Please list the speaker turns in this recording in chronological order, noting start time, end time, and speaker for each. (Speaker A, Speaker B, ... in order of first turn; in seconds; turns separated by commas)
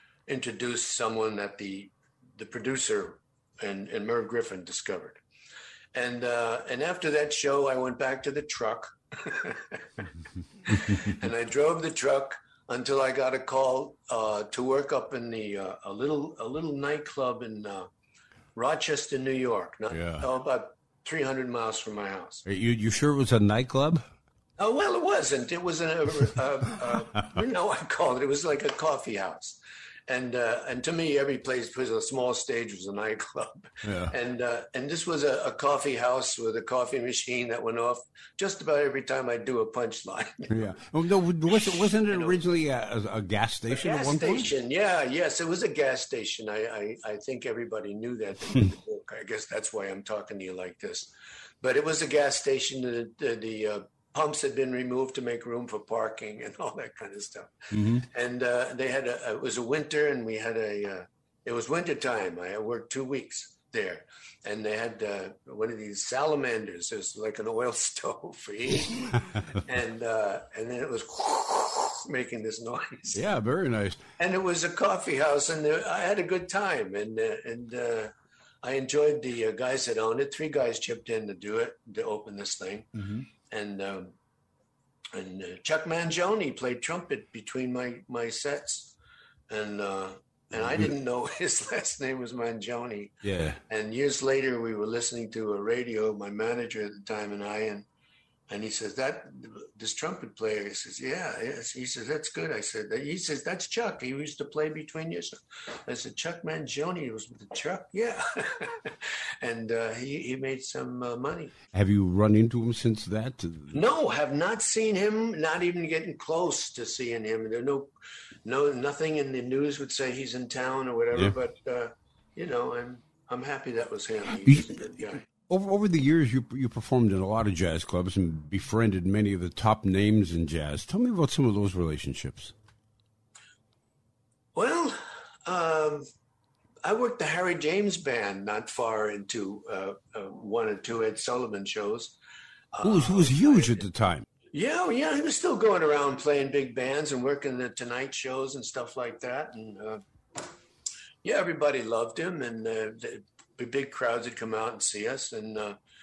Speaker A: 0.3-5.2, Speaker A: 5.9-10.0, Speaker A: 10.6-17.9, Speaker A: 18.5-22.4, Speaker B: 19.9-20.3, Speaker B: 22.4-24.0, Speaker A: 24.6-40.7, Speaker B: 33.8-34.1, Speaker B: 40.5-44.5, Speaker A: 41.5-42.4, Speaker A: 43.7-73.2, Speaker B: 57.7-58.0, Speaker B: 73.1-74.0, Speaker A: 74.2-78.1, Speaker A: 78.6-82.9, Speaker B: 83.0-83.2, Speaker A: 83.5-84.1, Speaker A: 85.1-88.9, Speaker A: 89.5-97.8, Speaker B: 90.6-90.9, Speaker B: 93.2-93.6, Speaker A: 98.5-111.5, Speaker B: 111.7-113.8, Speaker A: 113.7-117.9, Speaker A: 118.4-125.3, Speaker B: 124.4-124.8, Speaker B: 125.3-132.5, Speaker A: 134.5-136.1, Speaker A: 136.8-142.2, Speaker A: 142.7-143.8, Speaker B: 142.8-144.2, Speaker A: 144.5-150.0, Speaker A: 151.2-155.8